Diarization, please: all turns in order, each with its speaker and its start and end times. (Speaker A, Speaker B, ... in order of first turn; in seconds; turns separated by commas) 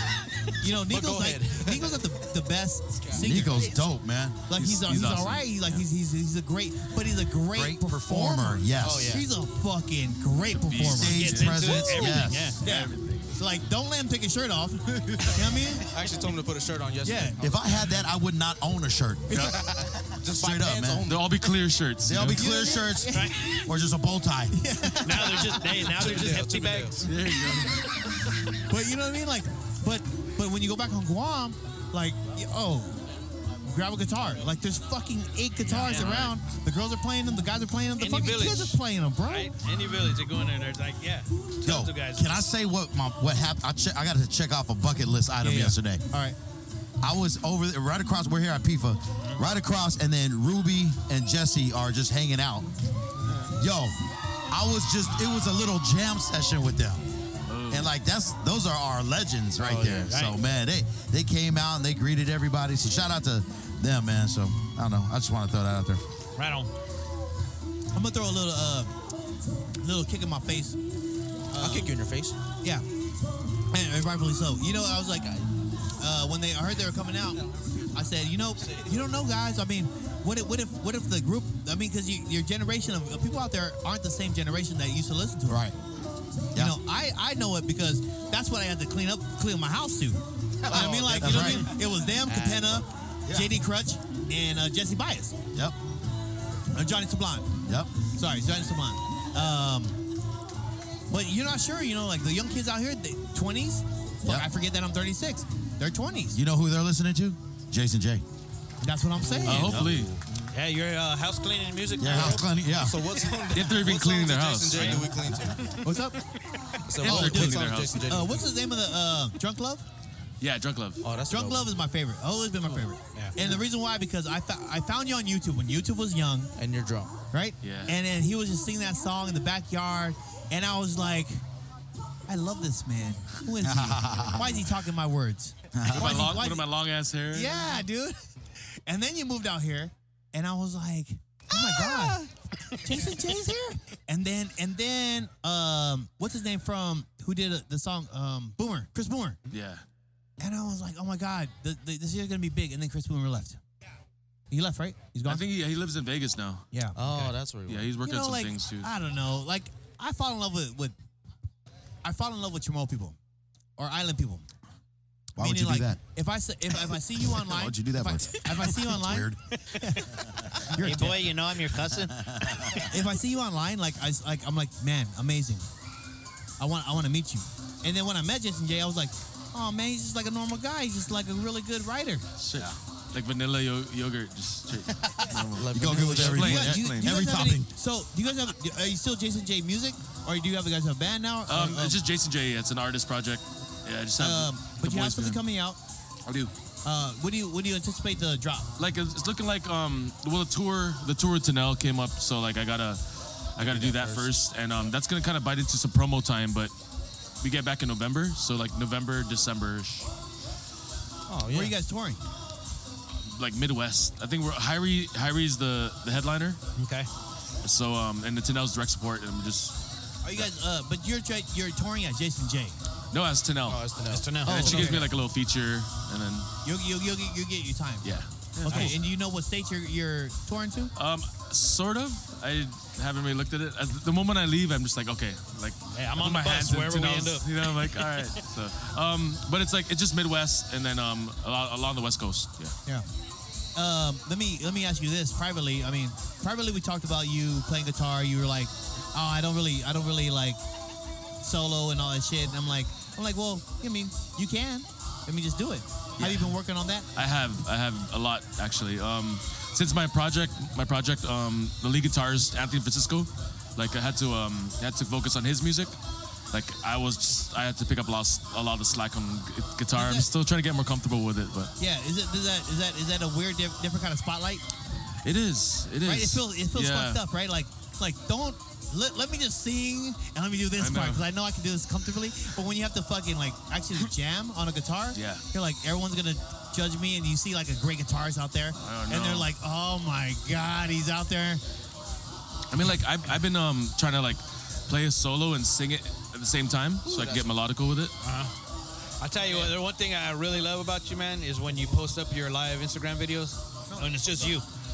Speaker A: 0.6-3.9, Speaker B: 0.8-2.1, Speaker C: 3.1-4.5, Speaker A: 4.5-11.7, Speaker D: 4.5-5.9, Speaker C: 7.5-9.2, Speaker B: 8.8-9.3, Speaker D: 10.5-13.4, Speaker C: 10.8-12.6, Speaker E: 11.1-12.6, Speaker A: 12.6-15.9, Speaker B: 15.3-17.7, Speaker A: 17.0-17.4, Speaker C: 17.4-21.1, Speaker A: 19.3-19.6, Speaker B: 19.5-21.6, Speaker D: 21.1-22.5, Speaker C: 22.0-24.6, Speaker A: 22.3-23.4, Speaker E: 23.1-23.6, Speaker A: 24.5-26.1, Speaker E: 25.0-27.1, Speaker B: 26.0-27.1, Speaker D: 27.0-28.0, Speaker A: 28.7-33.0, Speaker A: 33.6-39.5, Speaker E: 35.7-36.2, Speaker D: 35.8-36.3, Speaker E: 38.0-42.5, Speaker C: 41.6-46.0, Speaker A: 45.4-46.4, Speaker C: 47.0-52.7, Speaker C: 53.6-54.0, Speaker C: 54.5-57.0, Speaker D: 57.5-57.9, Speaker C: 57.7-66.0, Speaker D: 59.9-60.1, Speaker E: 60.1-60.4, Speaker E: 66.4-66.7, Speaker A: 67.9-68.9, Speaker A: 69.8-70.8, Speaker A: 71.5-71.9, Speaker B: 71.6-72.4, Speaker A: 73.7-75.4, Speaker A: 76.0-85.6, Speaker B: 78.6-79.2, Speaker C: 85.5-85.8, Speaker A: 86.5-95.4, Speaker C: 90.6-91.7, Speaker B: 90.7-92.8, Speaker A: 96.7-100.0, Speaker C: 97.7-97.9, Speaker A: 101.1-106.4, Speaker C: 106.3-108.2, Speaker A: 108.8-109.9, Speaker E: 109.2-109.7, Speaker D: 109.4-110.2, Speaker B: 109.5-110.1, Speaker E: 110.5-112.5, Speaker C: 112.0-113.0, Speaker B: 112.7-115.8, Speaker D: 113.5-115.1, Speaker E: 114.8-115.0, Speaker A: 115.8-116.2, Speaker B: 116.9-118.5, Speaker D: 117.0-118.1, Speaker A: 117.0-119.9, Speaker D: 120.4-121.0, Speaker B: 121.0-121.7, Speaker A: 121.3-126.5, Speaker B: 126.6-127.1, Speaker A: 127.3-131.4, Speaker D: 127.6-128.0, Speaker A: 132.3-136.7, Speaker C: 133.6-134.7, Speaker C: 135.7-136.3, Speaker D: 135.9-137.7, Speaker A: 137.3-138.2, Speaker A: 138.9-142.3, Speaker A: 142.8-149.4, Speaker D: 149.5-149.8, Speaker A: 150.4-153.6, Speaker A: 154.5-155.5, Speaker D: 155.2-156.7, Speaker A: 156.7-157.0, Speaker B: 156.9-157.9, Speaker D: 157.7-158.9, Speaker A: 158.0-160.9, Speaker A: 162.0-163.2, Speaker A: 163.8-164.4, Speaker C: 165.4-166.0, Speaker A: 165.4-170.1, Speaker C: 167.3-169.4, Speaker E: 168.3-168.8, Speaker E: 169.6-170.0, Speaker E: 170.7-172.9, Speaker A: 170.7-171.3, Speaker C: 171.9-172.8, Speaker A: 172.9-175.7, Speaker A: 176.6-182.3, Speaker D: 182.4-187.1, Speaker C: 185.1-187.7, Speaker B: 185.6-186.6, Speaker A: 186.0-192.0, Speaker D: 191.5-195.4, Speaker A: 194.2-195.8, Speaker D: 196.3-196.5, Speaker A: 196.8-198.7, Speaker D: 198.8-203.0, Speaker D: 203.6-206.7, Speaker B: 203.6-204.3, Speaker D: 207.4-210.1, Speaker B: 211.3-211.8, Speaker A: 211.4-212.2, Speaker D: 213.3-216.6, Speaker E: 216.8-217.1, Speaker D: 217.6-219.8, Speaker A: 220.2-222.8, Speaker D: 223.1-223.8, Speaker B: 223.7-224.9, Speaker E: 224.1-225.1, Speaker A: 224.4-225.1, Speaker D: 224.5-226.5, Speaker A: 226.7-230.9, Speaker D: 228.0-229.0, Speaker E: 228.7-229.0, Speaker D: 231.0-242.8, Speaker E: 235.9-238.4, Speaker A: 243.8-250.6, Speaker A: 251.4-257.1, Speaker D: 256.2-256.5, Speaker D: 257.1-266.0, Speaker D: 266.5-271.7, Speaker A: 269.9-270.3, Speaker A: 271.8-274.6, Speaker D: 275.2-277.2, Speaker A: 276.0-291.6, Speaker D: 280.8-281.3, Speaker D: 285.1-285.5, Speaker D: 288.8-289.5, Speaker D: 292.7-298.1, Speaker B: 297.1-297.5, Speaker E: 298.2-298.5, Speaker E: 299.2-304.7, Speaker A: 303.9-304.6